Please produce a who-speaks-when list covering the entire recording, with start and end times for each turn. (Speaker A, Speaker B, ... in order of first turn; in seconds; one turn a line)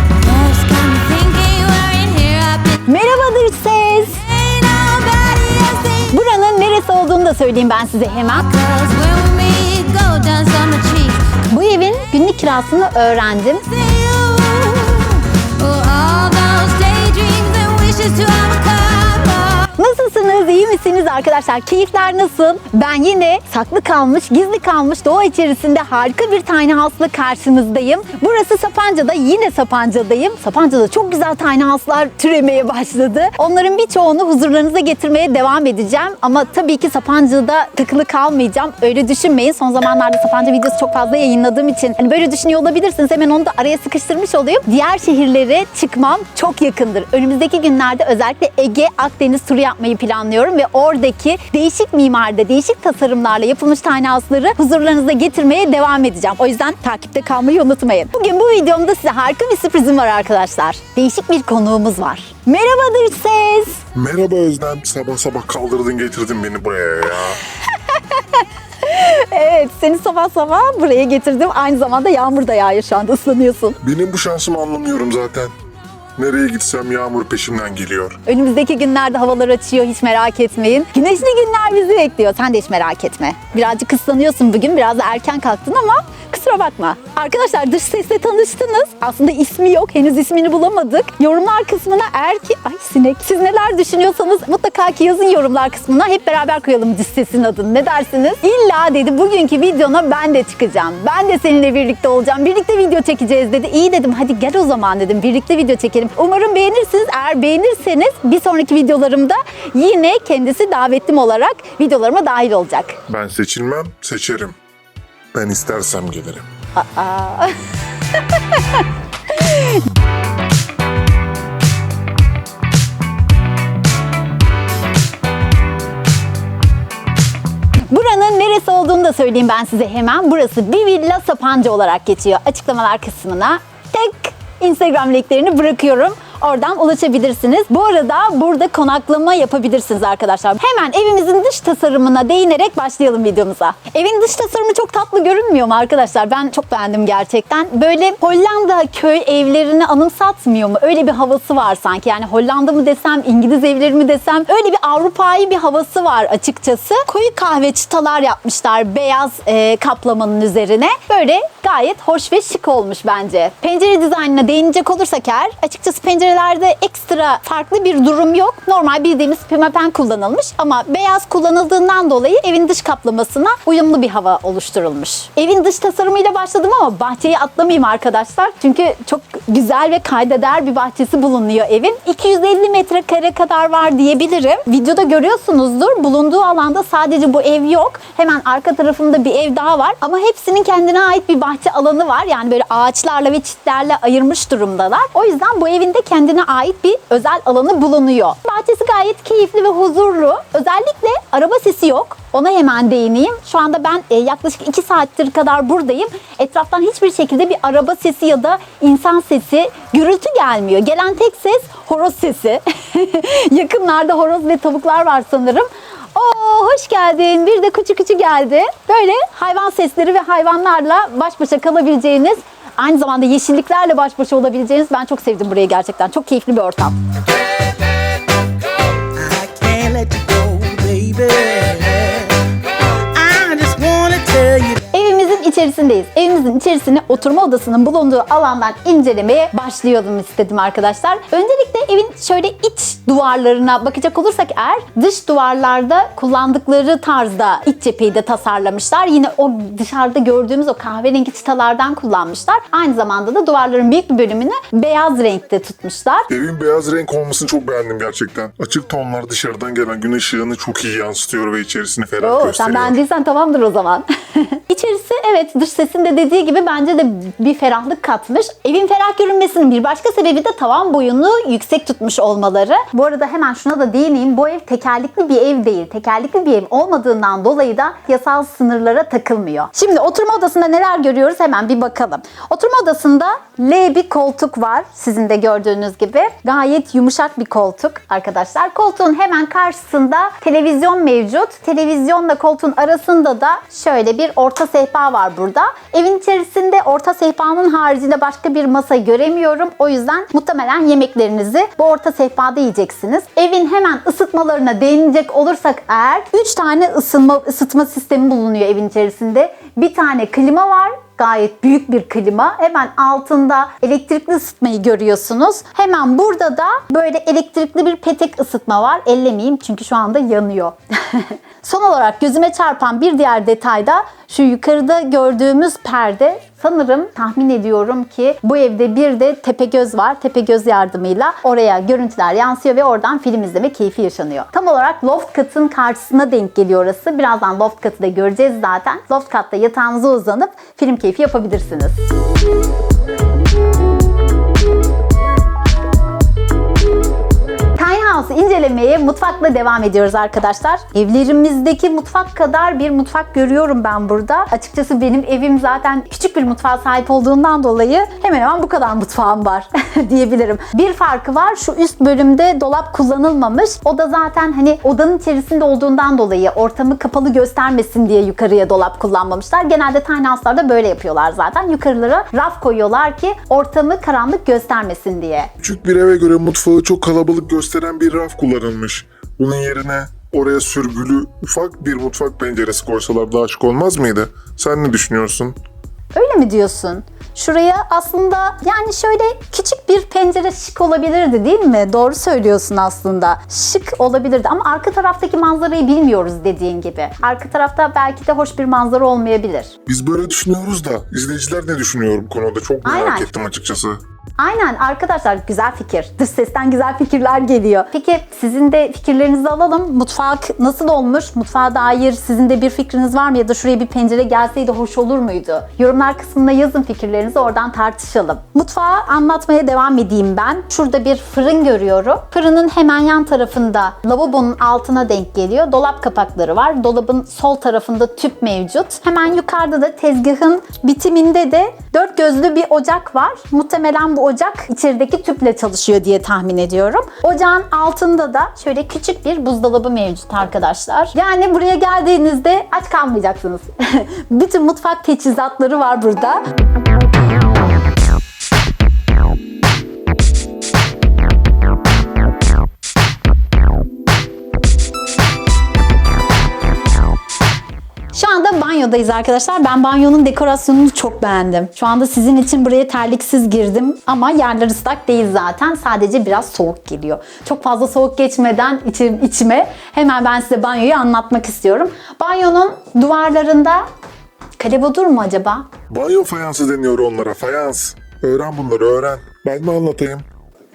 Speaker A: 0.2-2.8
Speaker B: 2.9-4.3
Speaker A: 4.3-6.1
Speaker B: 6.1-8.7
Speaker A: 8.7-11.3
Speaker B: 11.3-13.8
Speaker A: 13.8-19.7
Speaker B: 19.8-63.8
Speaker C: 63.9-67.4
Speaker B: 67.6-73.8
Speaker C: 73.8-75.5
Speaker C: 76.2-78.2
Speaker B: 78.3-113.0
Speaker C: 113.1-114.6
Speaker C: 115.3-116.5
Speaker B: 116.8-117.6
Speaker B: 118.1-119.8
Speaker B: 127.8-227.0
Speaker D: 229.2-232.3
Speaker D: 233.1-234.8
Speaker B: 234.9-256.3
Speaker C: 256.3-263.0
Speaker B: 262.2-342.0
Speaker B: 347.8-375.5
Speaker C: 375.6-385.6
Speaker B: 386.1-399.7
Speaker C: 399.9-404.0
Speaker B: 402.9-403.3
Speaker B: 404.4-446.4
Speaker B: 458.1-473.9
Speaker B: 474.6-475.7
Speaker C: 475.9-480.2